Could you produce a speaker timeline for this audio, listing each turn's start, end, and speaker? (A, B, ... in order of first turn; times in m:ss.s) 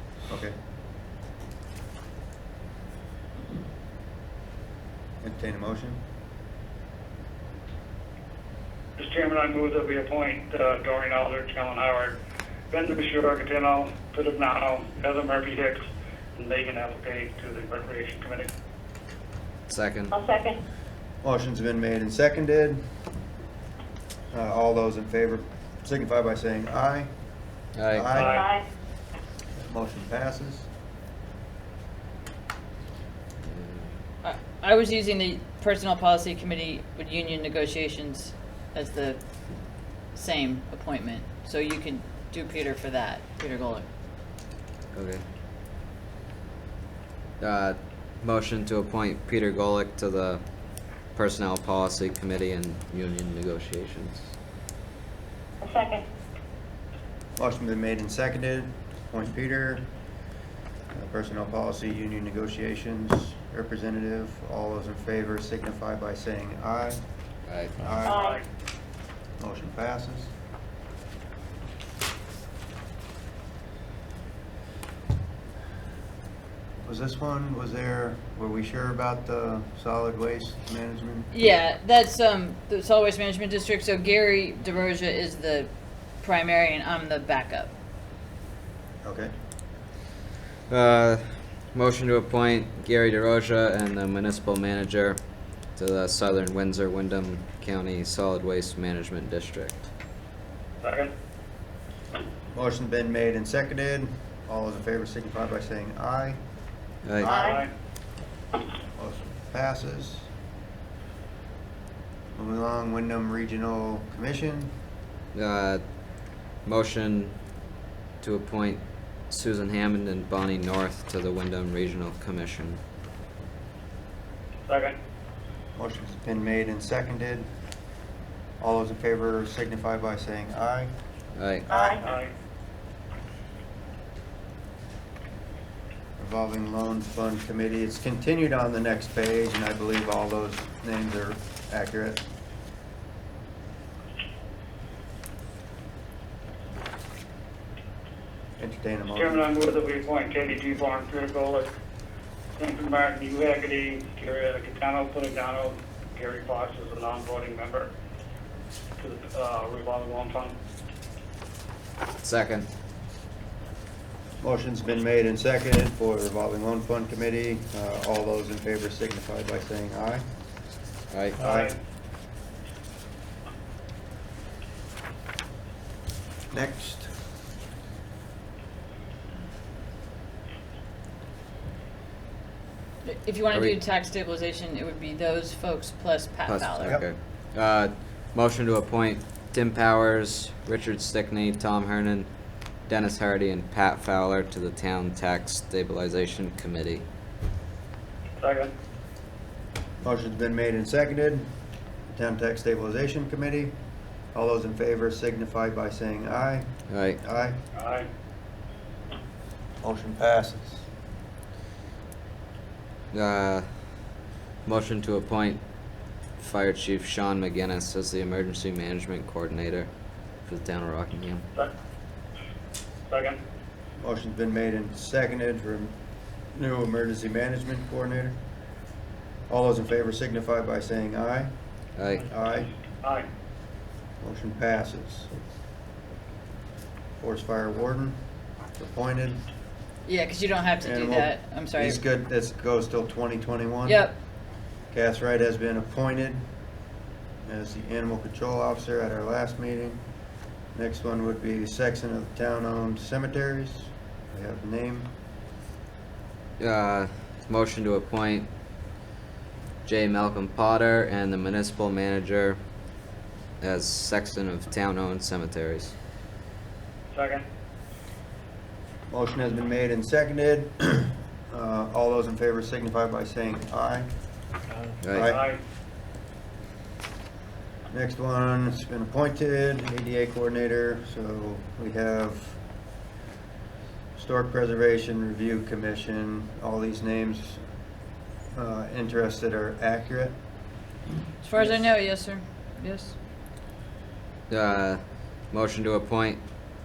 0:00.3-0:00.5 A
0:05.2-0:06.0 A
0:09.0-0:12.2 B
0:12.7-0:15.8 B
0:16.4-0:18.5 B
0:19.7-0:20.1 C
0:20.1-0:20.6 D
0:21.2-0:22.8 A
0:24.3-0:27.1 A
0:27.8-0:28.2 C
0:27.9-0:28.4 A
0:28.1-0:28.5 B
0:28.1-0:28.6 D
0:29.6-0:30.7 A
0:33.5-0:33.8 C
0:34.2-0:39.2 E
0:40.1-0:43.8 E
0:44.9-0:45.2 C
0:47.4-0:50.4 C
0:51.1-0:54.3 C
0:55.6-0:56.0 D
0:57.4-0:59.8 A
1:00.9-1:07.0 A
1:07.5-1:07.9 C
1:07.8-1:08.3 A
1:08.0-1:08.4 D
1:08.1-1:08.4 B
1:09.4-1:10.3 A
1:16.8-1:21.3 A
1:21.3-1:25.7 E
1:26.2-1:27.7 E
1:29.0-1:29.3 A
1:30.7-1:35.2 C
1:35.8-1:39.9 C
1:40.8-1:41.1 B
1:42.5-1:46.4 A
1:47.2-1:47.5 A
1:47.2-1:47.6 D
1:47.2-1:47.7 B
1:49.0-1:50.3 A
1:52.3-1:54.7 A
1:55.3-1:55.8 C
1:56.6-1:57.3 C
1:58.2-2:02.8 C
2:04.6-2:05.0 B
2:05.8-2:07.4 A
2:08.6-2:10.9 A
2:11.4-2:11.8 C
2:11.7-2:12.1 D
2:11.9-2:12.3 B
2:16.2-2:22.2 A
2:28.6-2:29.6 A
2:29.1-2:31.7 B
2:32.6-2:37.9 B
2:39.0-2:40.5 B
2:42.2-2:42.6 C
2:44.4-2:50.2 A
2:51.1-2:51.4 C
2:51.4-2:51.7 A
2:56.5-2:57.1 A
3:03.0-3:07.0 E
3:06.4-3:12.3 C
3:12.9-3:17.0 C
3:18.4-3:18.7 B
3:20.0-3:21.5 A
3:22.1-3:23.7 A
3:24.3-3:26.7 A
3:26.9-3:27.2 C
3:27.2-3:27.6 A
3:27.7-3:28.1 B
3:29.8-3:30.8 A
3:33.1-3:33.7 C
3:34.6-3:35.6 C
3:36.4-3:39.9 C
3:40.4-3:41.4 C
3:43.1-3:43.4 B
3:44.0-3:45.9 A
3:46.5-3:48.4 A
3:49.5-3:51.5 A
3:52.0-3:52.3 C
3:52.2-3:52.7 A
3:53.0-3:53.3 B
3:54.2-3:55.3 A
3:57.2-3:58.2 A
3:58.7-3:59.4 A
4:00.0-4:02.0 E
4:00.8-4:04.0 A
4:03.8-4:04.1 E
4:04.9-4:06.4 A
4:07.4-4:10.0 A
4:10.7-4:15.1 A
4:16.6-4:18.5 C
4:19.8-4:22.6 C
4:23.6-4:25.9 C
4:27.1-4:27.4 B
4:29.1-4:34.1 A
4:35.0-4:35.3 C
4:35.1-4:35.4 A
4:35.2-4:35.6 B
4:37.9-4:42.6 A
4:44.2-4:47.6 A
4:48.5-4:50.3 A
4:51.4-4:53.2 E
4:54.5-4:56.4 C